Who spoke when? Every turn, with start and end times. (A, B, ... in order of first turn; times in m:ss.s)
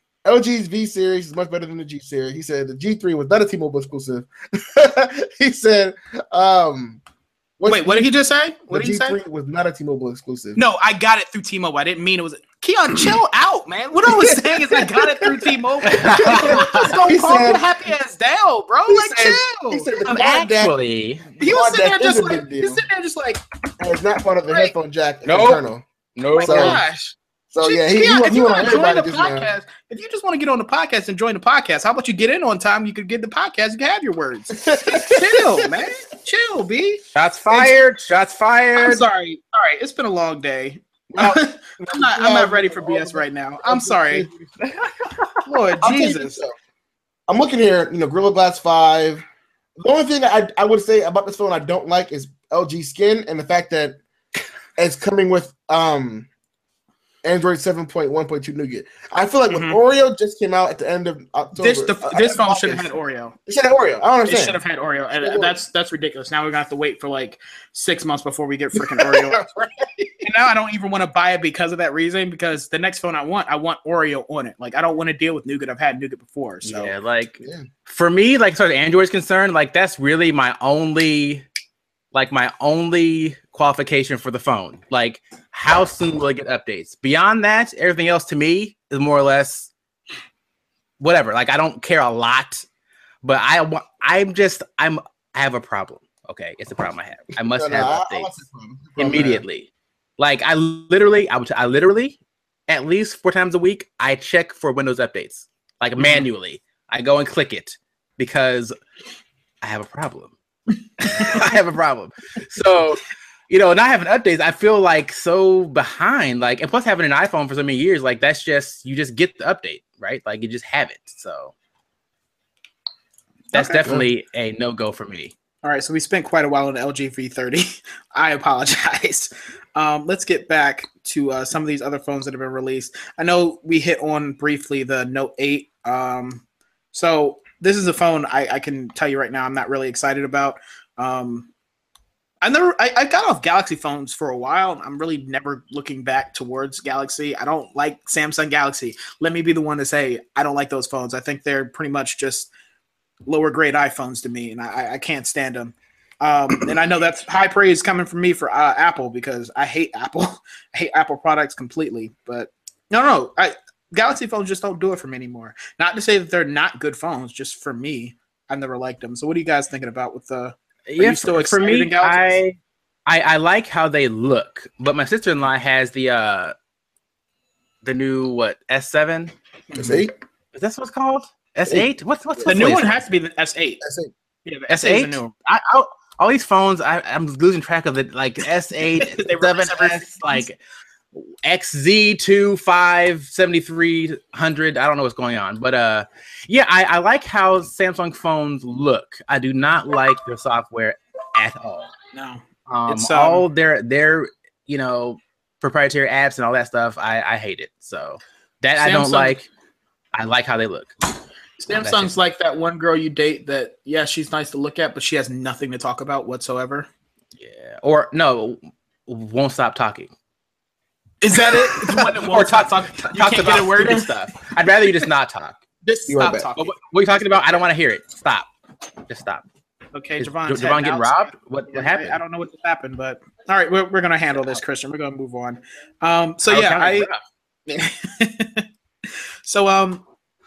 0:00.2-0:07.0 A
0:07.6-0:08.1 A
0:07.7-0:09.2 B
0:08.7-0:10.6 A
0:10.6-0:19.9 B
0:14.0-0:17.6 A
0:15.9-0:16.9 C
0:18.9-0:20.7 A
0:20.0-0:21.2 C
0:21.4-0:22.8 A
0:21.4-0:23.4 B
0:23.8-0:25.8 A
0:24.5-0:24.7 B
0:25.2-0:25.6 C
0:26.2-0:26.8 C
0:26.4-0:26.8 A
0:26.4-0:37.0 B
0:27.5-0:29.5 A
0:34.6-0:35.8 A
0:37.1-0:39.0 C
0:37.5-0:37.7 A
0:38.8-0:44.3 B
0:41.1-0:44.6 A
0:44.6-0:45.3 C
0:45.4-0:46.4 B
0:45.8-0:46.5 A
0:47.3-0:49.2 A
0:49.8-0:54.0 A
0:54.8-0:56.3 A
0:57.2-1:02.9 A
0:59.5-0:59.8 B
1:01.6-1:03.4 B
1:03.4-1:04.6 A
1:04.2-1:09.4 B
1:05.2-1:05.5 A
1:08.7-1:10.1 A
1:10.2-1:16.9 B
1:16.6-1:21.4 C
1:22.1-1:29.7 C
1:31.0-1:32.6 C
1:33.2-1:38.3 C
1:37.5-1:39.4 A
1:39.0-1:39.7 C
1:40.2-1:42.2 C
1:42.7-1:48.7 C
1:46.0-1:46.2 B
1:49.6-1:50.3 C
1:51.0-1:51.4 B
1:51.1-2:01.5 C
2:03.5-2:05.3 C
2:03.5-2:04.1 A
2:05.6-2:21.5 B
2:22.4-2:32.5 B
2:33.2-2:52.4 B
2:50.9-2:56.5 C
2:57.8-2:59.3 C
2:59.7-3:00.1 B
2:59.7-3:00.1 A
3:00.5-3:03.0 C
3:01.7-3:02.6 A
3:02.5-3:03.8 B
3:03.8-3:04.1 A
3:04.4-3:05.3 B
3:04.7-3:10.6 C
3:08.9-3:10.4 B
3:11.1-3:21.9 C
3:22.1-3:23.4 B
3:22.7-3:29.5 C
3:28.8-3:29.4 B
3:30.1-3:30.9 C
3:31.6-3:36.9 B
3:31.7-3:32.1 C
3:37.4-3:40.1 C
3:41.2-3:44.1 B
3:41.4-3:45.6 C
3:45.8-3:46.7 B
3:46.1-3:46.5 A
3:46.6-3:48.5 C
3:49.1-3:49.4 C
3:49.9-3:57.1 B
3:50.2-3:52.2 C
3:56.5-3:57.2 C
3:57.7-4:00.0 B